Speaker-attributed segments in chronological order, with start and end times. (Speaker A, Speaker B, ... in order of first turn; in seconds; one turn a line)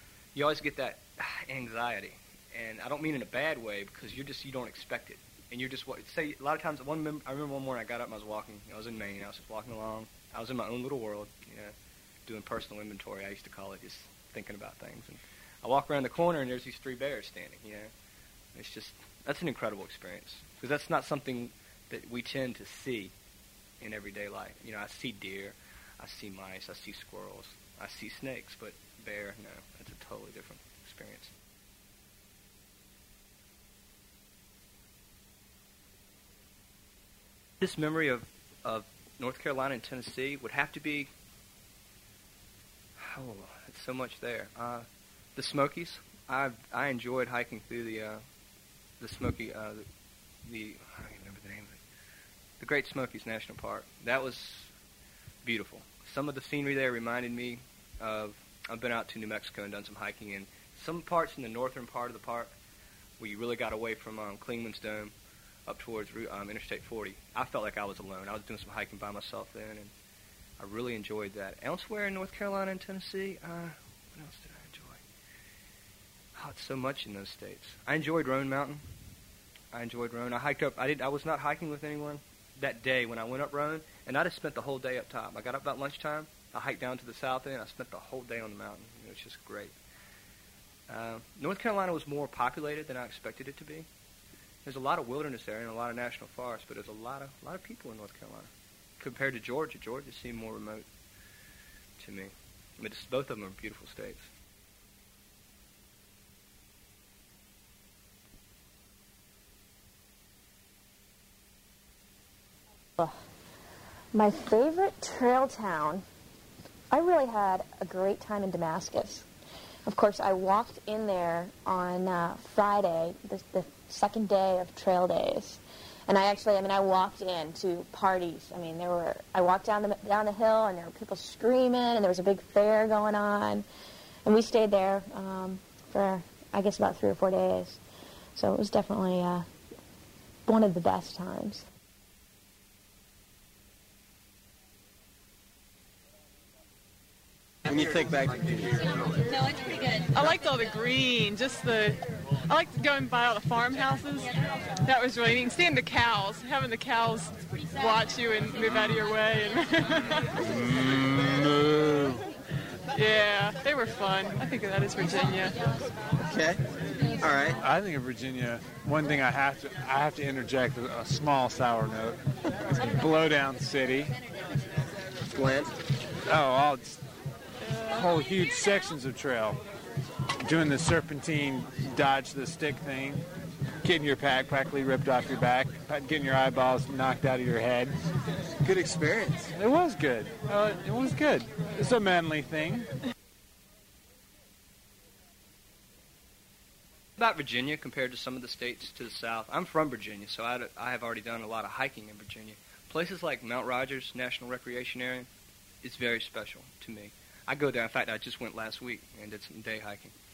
Speaker A: 0.3-11.7
Speaker A: 12.2-17.9
Speaker A: 18.5-23.1
Speaker A: 23.8-31.3
Speaker A: 37.6-41.1
Speaker A: 43.0-48.2
Speaker A: 49.0-49.8
Speaker A: 50.4-51.8
Speaker A: 52.6-54.7
Speaker A: 55.4-62.5
Speaker A: 63.2-65.1
Speaker A: 65.7-69.9
Speaker A: 70.6-75.0
Speaker A: 76.3-78.8
Speaker A: 79.7-89.8
Speaker A: 90.9-93.9
Speaker A: 94.6-100.9
Speaker A: 102.0-104.3
Speaker B: 114.1-116.0
Speaker B: 116.9-119.3
Speaker B: 119.8-133.7
Speaker B: 134.2-137.8
Speaker B: 138.3-139.4
Speaker B: 140.4-141.6
Speaker C: 147.6-149.3
Speaker D: 150.1-160.4
Speaker E: 160.4-162.2
Speaker D: 162.9-165.6
Speaker C: 166.3-166.6
Speaker C: 167.2-167.6
Speaker E: 167.6-172.2
Speaker E: 172.8-174.1
Speaker C: 175.3-175.7
Speaker E: 176.3-177.0
Speaker E: 177.9-179.6
Speaker E: 180.4-183.2
Speaker E: 183.8-187.9
Speaker E: 188.7-192.9
Speaker A: 197.2-205.3
Speaker A: 205.8-210.1